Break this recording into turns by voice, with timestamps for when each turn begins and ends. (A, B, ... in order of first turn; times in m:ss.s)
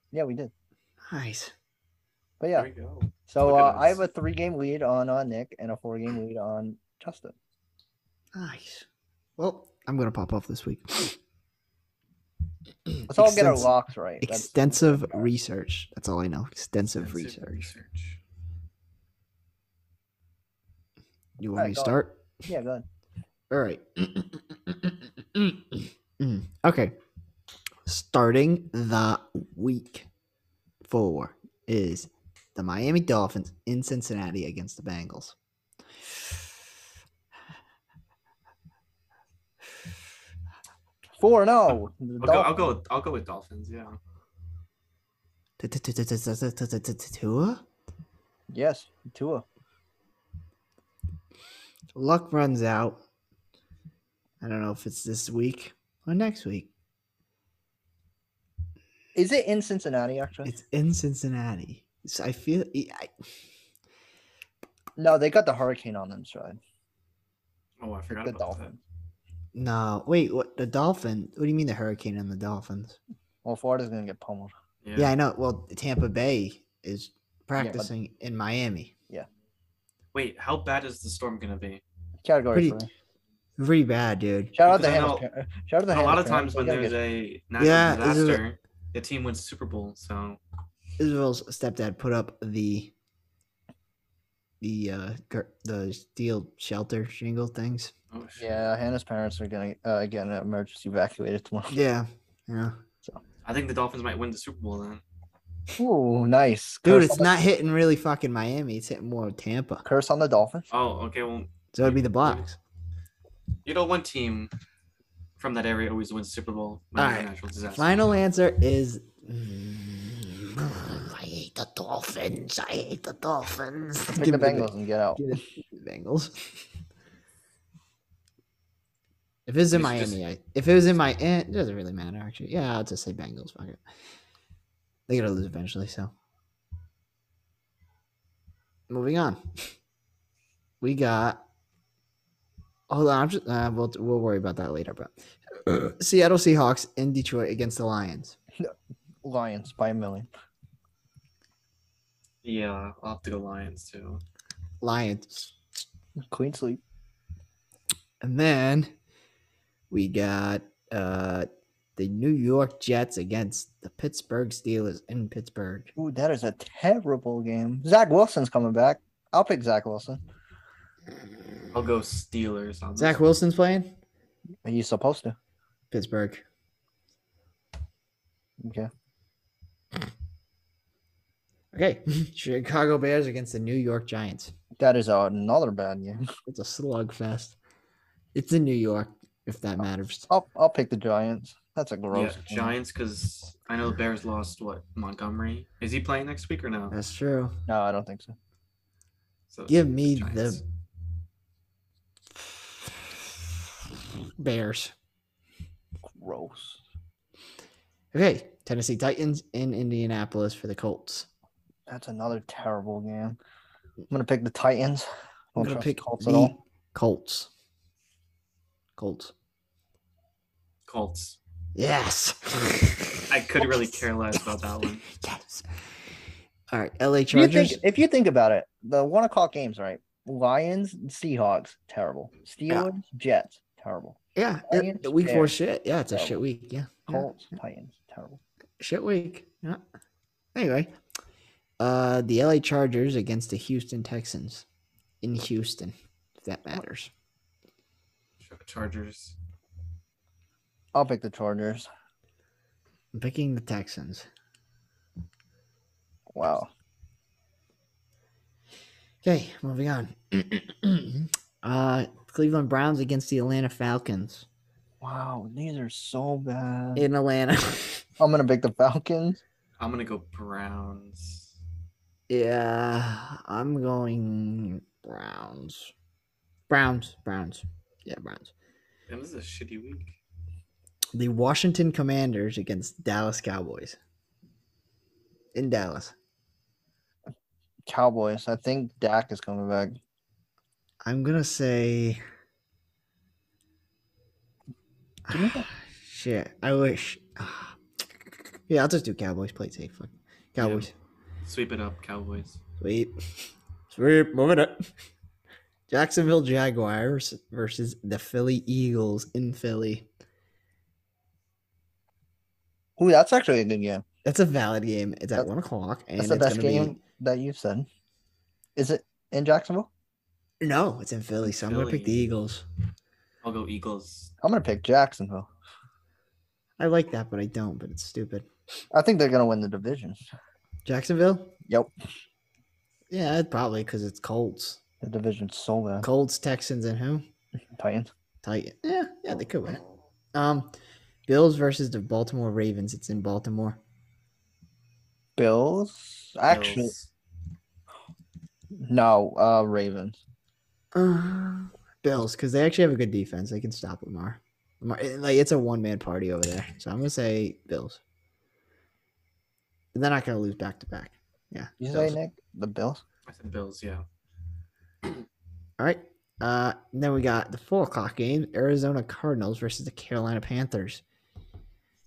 0:00.1-0:00.5 A
0:01.1-0:01.5 B
0:02.4-0:02.7 A
0:02.5-0:04.0 C
0:03.3-0:07.3 A
0:08.3-0:08.8 B
0:09.4-0:11.2 B
0:12.9-0:17.7 B
0:13.1-0:15.3 A
0:17.0-0:18.2 C
0:21.4-0:22.2 B
0:21.6-0:22.8 A
0:23.5-0:27.0 B
0:27.8-0:30.1 B
0:30.8-0:35.4 B
0:41.2-0:42.6 A
0:42.2-0:44.0 C
0:45.6-0:47.6 B
0:48.5-0:49.4 A
0:51.9-0:53.0 B
0:54.4-0:56.7 B
0:59.1-1:00.5 A
1:00.4-1:03.1 B
1:05.0-1:06.6 A
1:07.8-1:08.7 C
1:08.1-1:08.8 A
1:09.5-1:13.0 B
1:13.4-1:14.5 A
1:14.8-1:15.1 C
1:15.0-1:18.9 B
1:17.6-1:17.9 A
1:20.1-1:21.8 C
1:22.2-1:22.9 A
1:22.5-1:22.8 B
1:23.6-1:24.5 B
1:24.5-1:27.0 A
1:24.7-1:25.2 C
1:25.9-1:30.4 C
1:27.6-1:28.4 B
1:31.0-1:32.9 B
1:34.6-1:37.9 B
1:38.1-1:38.6 C
1:38.4-1:41.7 A
1:41.7-1:42.8 B
1:43.4-1:45.0 C
1:45.8-1:47.4 A
1:46.8-1:49.8 B
1:49.8-1:50.7 A
1:50.7-1:52.4 C
1:51.7-1:52.6 B
1:53.6-1:54.5 C
1:55.4-1:57.9 C
1:57.0-2:06.6 B
2:04.1-2:05.4 A
2:09.4-2:13.8 B
2:09.7-2:10.2 C
2:15.1-2:16.1 B
2:18.9-2:19.7 B
2:20.8-2:21.4 B
2:22.9-2:28.4 B
2:29.2-2:30.3 A
2:32.4-2:34.2 C
2:34.8-2:35.5 B
2:36.3-2:36.8 A
2:38.2-2:38.9 B
2:39.9-2:45.9 B
2:46.0-2:50.2 A
2:51.1-2:51.7 B
2:51.7-2:53.2 C
2:53.0-2:53.9 B
2:54.6-2:55.4 A
2:55.9-2:56.4 B
2:58.6-2:58.9 A
3:01.7-3:04.5 B
3:04.8-3:06.2 A
3:06.4-3:07.6 B
3:08.3-3:10.3 B
3:10.3-3:12.7 A
3:12.1-3:17.0 C
3:16.9-3:17.6 B
3:17.7-3:18.4 A
3:19.5-3:20.6 C
3:19.7-3:20.6 B
3:22.4-3:23.1 B
3:24.4-3:24.9 B
3:26.2-3:26.8 A
3:28.1-3:31.3 B
3:31.9-3:33.4 A
3:34.1-3:36.5 A
3:35.6-3:37.5 B
3:39.0-3:39.3 B
3:40.9-3:41.4 C
3:41.7-3:44.5 B
3:43.3-3:45.0 C
3:45.0-3:45.7 B
3:46.7-3:47.8 B
3:47.3-3:54.2 A
3:54.4-3:57.3 B
3:54.7-3:55.5 A
3:57.1-3:58.4 A
3:58.8-3:59.8 B
4:00.5-4:00.9 B
4:01.8-4:04.6 B
4:05.2-4:07.1 B
4:08.4-4:09.4 C
4:10.9-4:11.9 A
4:13.1-4:14.3 B
4:16.3-4:16.7 A
4:19.2-4:24.4 B
4:25.0-4:27.1 A
4:27.0-4:28.0 B
4:28.2-4:29.4 A
4:29.8-4:31.5 C
4:32.3-4:35.9 B
4:36.7-4:38.5 B
4:39.1-4:40.2 C
4:41.1-4:44.0 B
4:45.5-4:46.1 B
4:47.9-4:50.0 A
4:51.0-4:52.2 B
4:55.3-5:00.9 B
4:55.3-4:55.7 A
5:00.6-5:00.9 C
5:01.4-5:02.6 C
5:02.8-5:04.9 B
5:05.9-5:10.1 B
5:13.0-5:14.0 A
5:14.2-5:17.0 B
5:16.2-5:17.9 A
5:18.8-5:19.9 A
5:20.6-5:22.6 B
5:21.4-5:22.3 C
5:23.4-5:24.3 C
5:24.4-5:25.5 A
5:26.8-5:28.5 B
5:28.9-5:30.2 A
5:30.8-5:31.5 B
5:33.1-5:34.8 B
5:35.0-5:36.1 A
5:36.0-5:37.3 B
5:37.8-5:38.1 A
5:38.4-5:39.8 B
5:40.3-5:40.7 B
5:41.3-5:43.8 B
5:45.4-5:46.9 A
5:46.5-5:47.1 C
5:48.8-5:50.2 A
5:50.9-5:58.0 B
5:59.9-6:02.2 B
6:01.8-6:03.0 A
6:03.3-6:04.0 C
6:05.8-6:11.0 B